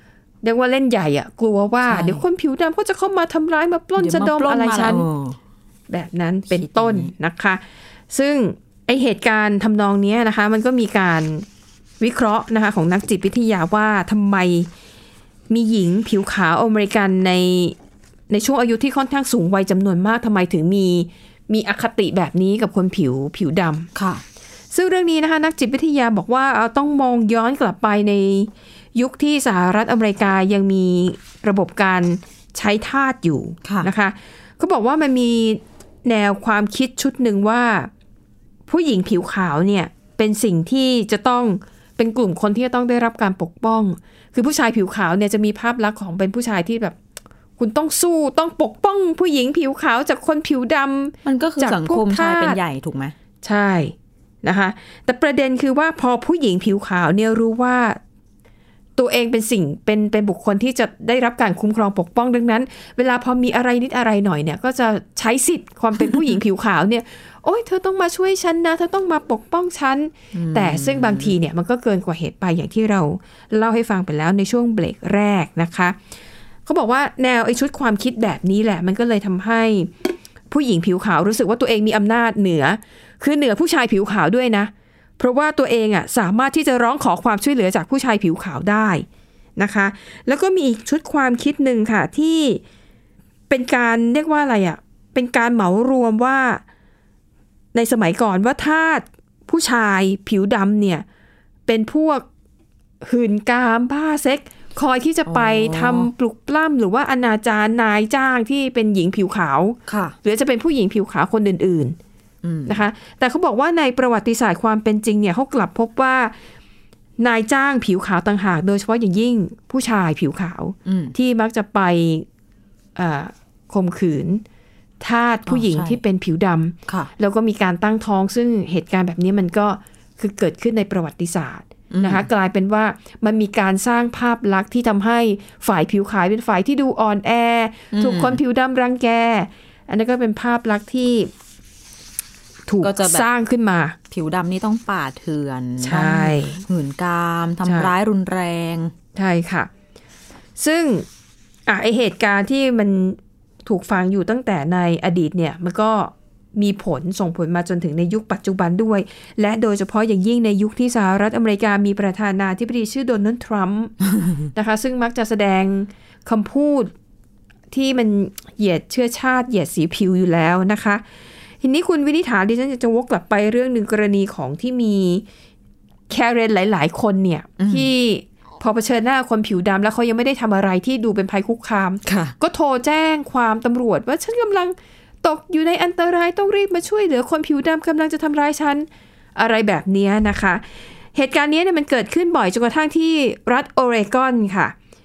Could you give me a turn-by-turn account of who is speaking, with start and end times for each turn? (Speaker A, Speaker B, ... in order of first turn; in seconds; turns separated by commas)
Speaker A: 0.4-5.0, Speaker B: 1.9-2.2, Speaker B: 4.0-5.4, Speaker A: 5.9-11.4, Speaker B: 6.5-7.1, Speaker A: 12.0-14.7, Speaker A: 15.5-17.8, Speaker A: 18.3-23.9, Speaker B: 23.9-24.2, Speaker A: 24.7-37.9, Speaker A: 38.7-47.0, Speaker A: 47.6-52.6, Speaker B: 51.2-53.1, Speaker A: 53.4-58.0, Speaker A: 59.0-76.0, Speaker B: 70.3-71.3, Speaker A: 76.7-79.9, Speaker A: 80.5-89.0, Speaker A: 89.6-92.6, Speaker A: 93.5-96.6, Speaker A: 97.7-101.0, Speaker A: 101.7-102.2, Speaker A: 103.0-112.0, Speaker B: 105.3-106.1, Speaker B: 109.9-110.1, Speaker B: 112.4-112.8, Speaker A: 112.7-116.3, Speaker A: 117.2-122.2, Speaker B: 120.8-121.1, Speaker A: 123.0-124.4, Speaker A: 125.0-141.3, Speaker B: 125.5-126.0, Speaker B: 131.9-132.2, Speaker B: 137.9-138.4, Speaker A: 142.7-143.9, Speaker B: 142.8-143.2, Speaker B: 144.1-148.9, Speaker A: 145.8-146.6, Speaker A: 147.6-147.9, Speaker A: 149.1-149.7, Speaker A: 150.6-151.1, Speaker A: 151.7-164.0, Speaker A: 164.5-166.9, Speaker A: 167.7-171.0, Speaker A: 171.6-175.2, Speaker A: 176.1-194.7, Speaker B: 177.6-177.9, Speaker B: 182.0-182.3